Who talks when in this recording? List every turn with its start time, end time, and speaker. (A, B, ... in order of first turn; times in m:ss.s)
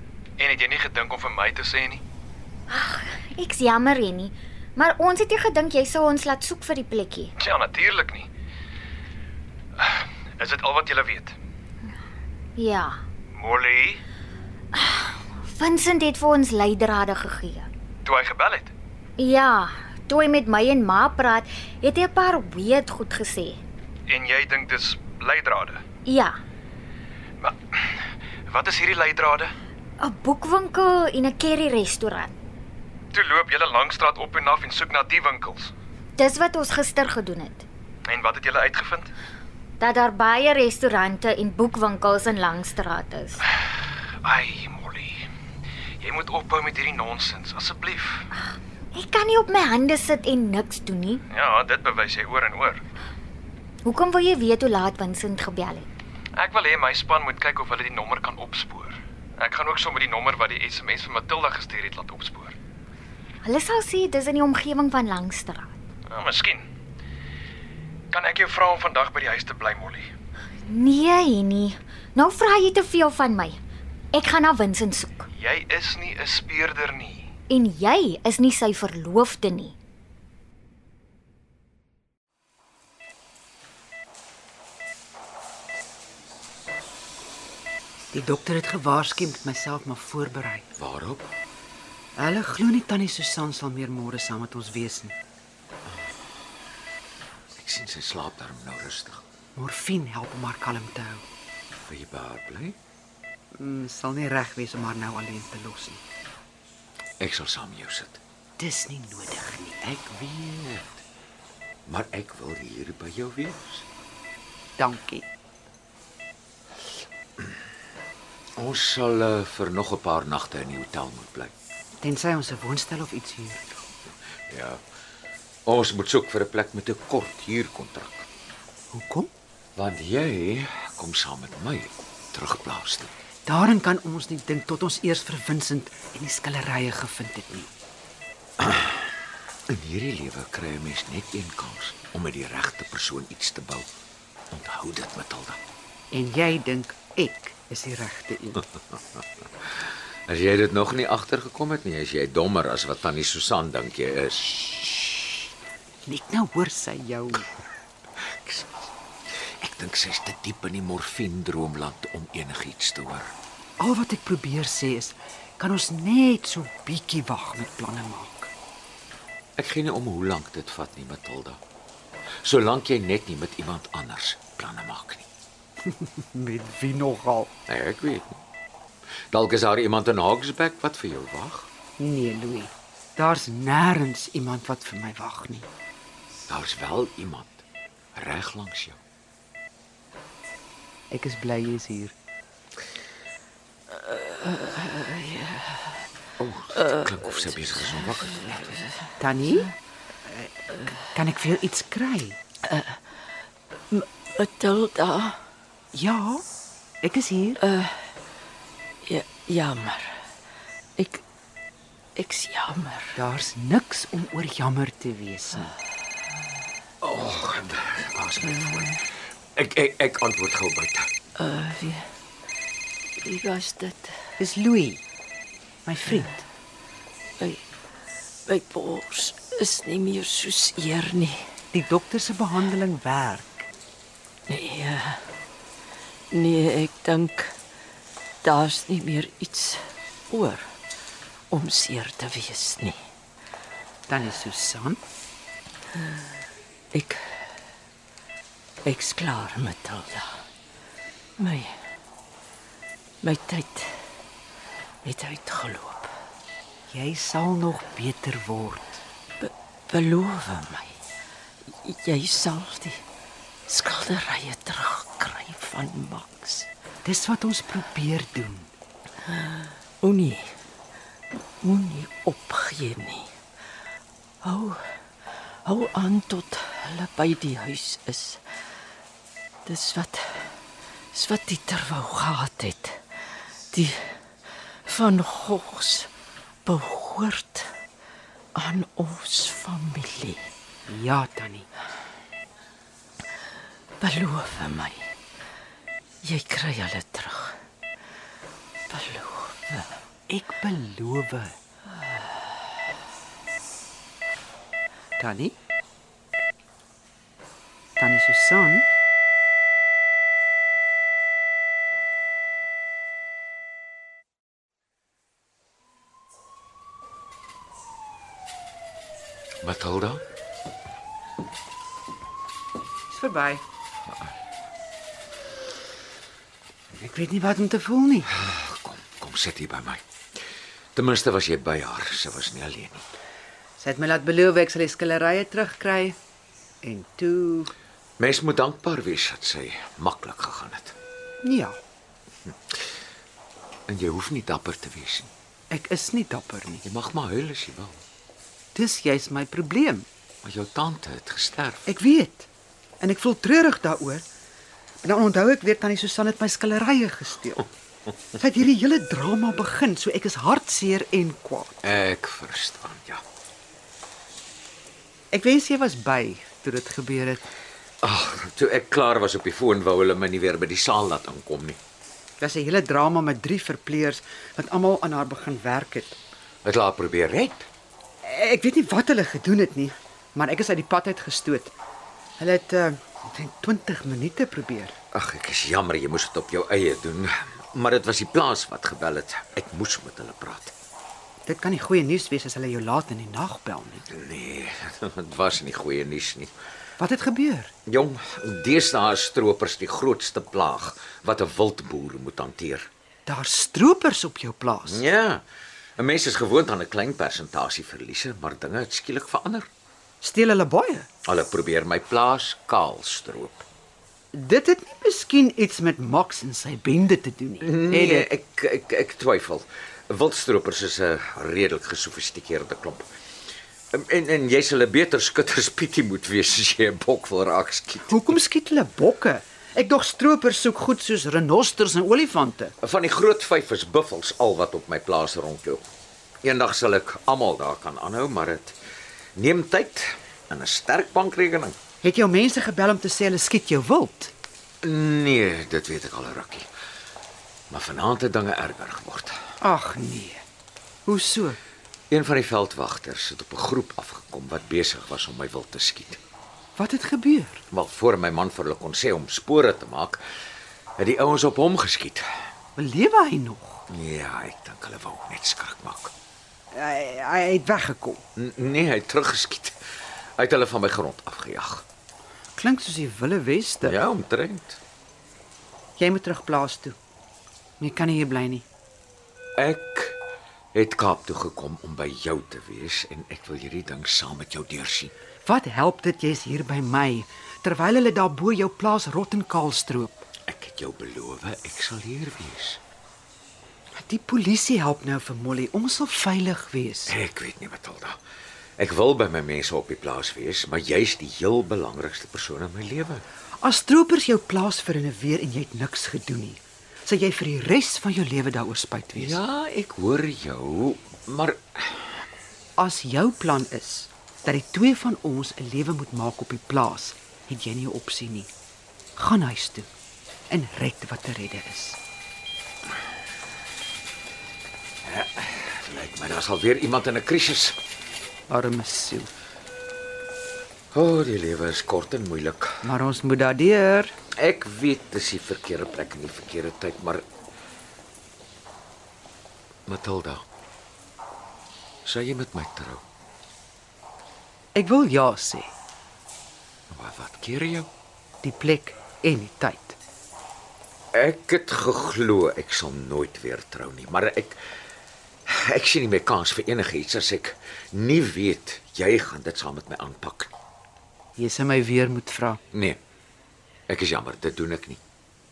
0:00.4-0:02.0 A
0:02.7-0:07.3 B
0:07.4-0:08.3 A
0:09.8-0:11.4 A
0:12.6-0:13.0 B
0:13.3-0:14.0 A
0:14.7-0:17.7 B
0:18.0-0:18.7 A
0:19.2-0:23.6 B
0:24.1-0:25.8 A
0:26.0-0:26.4 B
0:27.4-0:27.8 A
0:28.5-0:29.5 A
0:30.0-0:32.4 B
0:33.1-0:35.7 A
0:36.2-0:37.6 B
0:38.0-0:39.1 A
0:39.8-0:43.4 B
0:44.2-0:45.3 A
0:46.0-0:48.3 A
0:48.3-0:51.2 B
0:51.3-0:52.8 A
0:53.8-0:55.9 B
0:56.4-1:02.5 A
1:03.4-1:05.7 B
1:06.1-1:06.6 A
1:08.1-1:10.1 A
1:10.6-1:13.6 B
1:14.1-1:15.3 B
1:15.3-1:17.3 A
1:17.5-1:19.8 B
1:28.1-1:30.6 C
1:30.8-1:31.2 D
1:32.2-1:35.1 C
1:37.6-1:39.2 D
1:39.6-1:41.2 C
1:41.9-1:42.7 D
1:43.5-1:46.0 C
1:47.6-1:48.2 D
1:48.6-1:50.0 C
1:52.3-1:53.8 D
1:54.8-1:55.3 C
1:58.8-2:01.3 D
2:02.0-2:03.8 C
2:04.5-2:04.8 D
2:06.6-2:08.2 D
2:08.9-2:09.3 C
2:09.8-2:11.8 D
2:12.4-2:13.1 D
2:13.4-2:17.7 C
2:19.8-2:21.0 D
2:21.7-2:23.8 D
2:24.6-2:25.6 D
2:26.1-2:28.6 C
2:34.3-2:35.2 D
2:36.0-2:37.5 C
2:38.5-2:38.8 D
2:39.8-2:42.0 D
2:42.7-2:43.3 D
2:43.8-2:48.5 C
2:49.8-2:51.6 D
2:52.6-2:55.2 D
2:55.9-2:57.5 C
2:57.8-2:58.2 D
2:59.9-3:01.6 D
3:02.0-3:05.7 C
3:06.7-3:07.5 D
3:11.1-3:12.1 C
3:13.9-3:15.9 E
3:16.7-3:18.9 E
3:16.8-3:18.7 D
3:19.2-3:19.7 C
3:21.1-3:22.4 C
3:22.6-3:23.0 E
3:23.9-3:25.4 E
3:25.9-3:26.4 C
3:27.0-3:27.6 C
3:27.6-3:28.0 E
3:29.0-3:30.2 E
3:31.0-3:31.2 E
3:32.2-3:33.2 E
3:33.2-3:35.7 C
3:37.0-3:39.0 D
3:38.4-3:39.0 E
3:40.4-3:41.0 D
3:41.4-3:42.0 E
3:43.2-3:44.1 E
3:44.4-3:45.0 C
3:45.8-3:46.5 C
3:48.5-3:51.5 E
3:51.7-3:53.7 C
3:54.5-3:55.2 E
3:56.3-3:57.5 E
3:58.4-4:00.6 E
4:01.5-4:03.0 E
4:04.1-4:05.0 C
4:06.9-4:07.2 E
4:08.8-4:10.4 E
4:11.4-4:11.8 E
4:13.2-4:13.9 E
4:15.0-4:16.1 E
4:16.9-4:19.0 C
4:19.4-4:21.0 E
4:21.7-4:23.0 E
4:23.7-4:26.7 E
4:27.0-4:28.7 C
4:29.3-4:30.5 E
4:31.6-4:33.3 E
4:34.4-4:34.8 E
4:35.6-4:38.4 E
4:39.6-4:40.5 E
4:41.1-4:43.0 E
4:43.7-4:44.2 E
4:44.8-4:46.1 E
4:46.6-4:47.7 E
4:48.5-4:50.5 E
4:50.9-4:51.7 C
4:54.0-4:55.1 E
4:56.2-4:57.6 E
4:58.9-4:59.9 E
5:00.3-5:01.5 C
5:05.2-5:05.5 C
5:08.0-5:08.9 C
5:19.6-5:20.2 D
5:23.1-5:23.6 C
5:26.9-5:28.3 C
5:28.4-5:30.0 D
5:31.0-5:33.0 D
5:33.8-5:36.2 C
5:36.8-5:37.7 C
5:38.2-5:40.9 D
5:41.4-5:41.8 C
5:43.9-5:45.3 D
5:45.7-5:46.8 C
5:46.9-5:48.0 D
5:48.7-5:50.0 C
5:50.4-5:51.8 D
5:51.8-5:52.5 C
5:53.0-5:54.2 C
5:55.0-5:57.7 C
5:58.4-6:01.8 C
6:01.8-6:03.2 D
6:05.3-6:07.5 C
6:08.0-6:11.8 D
6:12.4-6:16.2 C
6:16.6-6:17.6 D
6:18.2-6:21.7 C
6:22.4-6:25.0 C
6:25.1-6:30.7 D
6:31.4-6:34.0 C
6:34.1-6:36.5 D
6:37.0-6:37.7 C
6:37.9-6:42.8 D
6:43.3-6:45.0 C
6:44.9-6:45.4 D
6:46.1-6:49.6 D
6:50.2-6:51.0 C
6:51.3-6:53.6 D
6:54.3-6:58.3 C
6:57.6-7:03.0 D
7:03.9-7:08.1 D
7:08.1-7:12.7 C
7:12.8-7:15.7 D
7:16.4-7:18.7 D
7:19.4-7:20.0 D
7:20.5-7:20.8 D
7:21.4-7:21.7 D
7:22.0-7:24.3 C
7:24.8-7:26.6 D
7:27.7-7:29.3 D
7:29.6-7:30.4 C
7:31.0-7:31.6 C
7:32.1-7:36.2 D
7:36.8-7:37.6 C
7:37.7-7:40.2 D
7:41.0-7:42.2 D
7:42.8-7:43.8 C
7:43.9-7:46.1 D
7:46.7-7:48.2 C
7:48.4-7:49.7 D
7:50.4-7:51.8 D
7:52.6-7:54.0 C
7:53.8-7:54.8 D
7:56.0-7:57.0 C
7:57.8-7:58.6 C
7:59.6-8:00.1 D
8:00.7-8:05.1 D
8:05.4-8:10.2 C
8:10.5-8:12.8 D
8:13.9-8:17.2 C
8:17.1-8:18.1 D
8:18.8-8:23.2 D
8:23.6-8:29.4 C
8:29.2-8:32.0 D
8:32.8-8:38.5 C
8:39.2-8:39.9 C
8:40.5-8:42.0 C
8:45.0-8:47.7 D
8:48.5-8:49.3 C
8:50.9-8:52.6 D
8:52.8-8:54.1 C
8:54.4-8:57.2 D
8:59.9-9:00.4 D
9:02.0-9:03.0 D
9:04.7-9:05.7 C
9:06.9-9:07.8 D
9:08.4-9:10.0 C
9:11.1-9:14.6 D
9:15.5-9:20.5 D
9:21.4-9:22.6 C
9:23.9-9:25.0 D